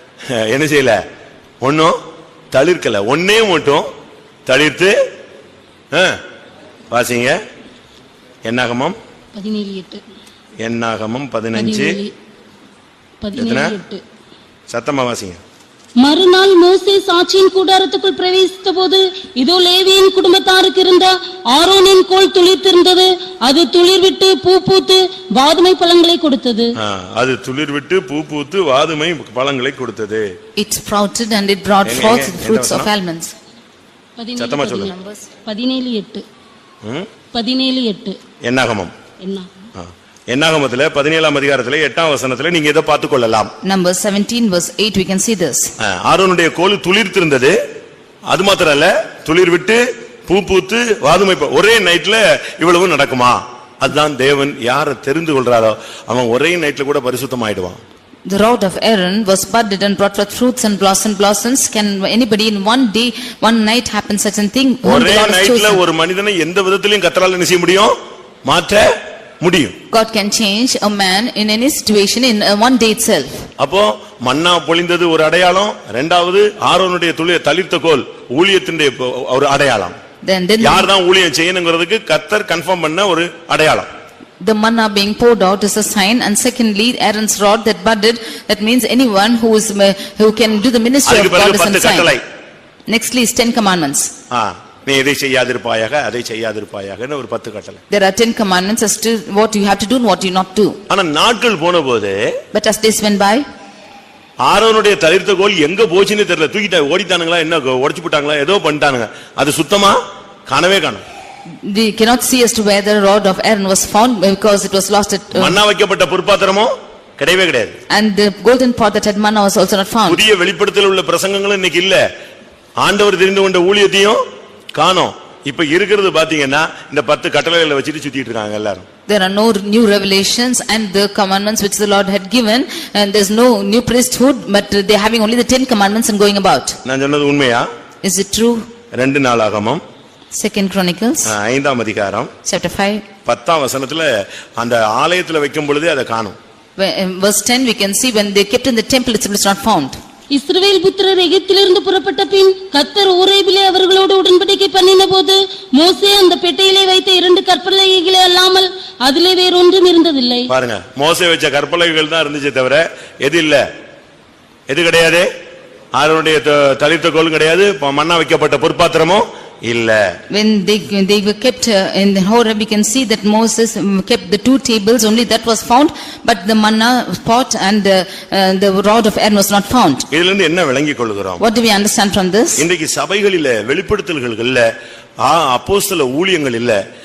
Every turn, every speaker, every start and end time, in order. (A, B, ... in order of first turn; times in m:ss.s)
0:00.3-0:01.0 A
0:01.6-0:02.0 A
0:02.5-0:03.9 A
0:04.5-0:05.0 A
0:05.9-0:06.2 A
0:06.9-0:07.4 A
0:08.4-0:09.0 A
0:09.3-0:10.0 B
0:10.6-0:12.0 A
0:11.5-0:12.1 B
0:13.2-0:14.0 B
0:13.4-0:13.8 A
0:14.7-0:15.4 A
0:16.0-0:26.7 B
0:26.8-0:30.3 A
0:30.6-0:33.3 C
0:31.8-0:32.9 A
0:34.2-0:36.2 B
0:34.4-0:34.9 A
0:36.8-0:37.1 A
0:37.3-0:38.2 B
0:38.4-0:38.9 A
0:39.2-0:39.5 B
0:39.8-0:43.5 A
0:43.6-0:45.7 C
0:45.8-0:47.6 A
0:48.3-0:57.8 A
0:58.3-1:05.8 C
1:04.8-1:08.0 A
1:08.5-1:09.8 A
1:09.9-1:13.5 C
1:13.6-1:20.0 A
1:20.2-1:20.9 C
1:20.6-1:23.9 A
1:24.4-1:32.1 C
1:31.1-1:32.2 A
1:32.9-1:34.1 C
1:34.3-1:37.8 A
1:37.9-1:40.8 C
1:40.9-1:42.4 A
1:42.5-1:43.4 C
1:44.4-1:51.0 A
1:51.6-1:55.6 C
1:55.3-1:57.8 A
1:57.9-2:00.3 C
2:00.1-2:02.0 A
2:02.8-2:04.2 A
2:04.8-2:08.8 A
2:09.1-2:16.8 C
2:16.8-2:17.7 A
2:18.0-2:18.7 C
2:18.9-2:19.8 A
2:20.3-2:21.3 C
2:21.2-2:22.3 A
2:22.4-2:23.1 C
2:23.2-2:26.4 A
2:26.8-2:30.0 C
2:30.3-2:40.5 B
2:40.5-2:43.6 A
2:44.7-2:45.3 A
2:46.0-2:50.0 A
2:50.3-3:00.1 C
3:00.1-3:01.4 A
3:01.4-3:02.7 C
3:02.6-3:04.7 A
3:05.2-3:06.8 A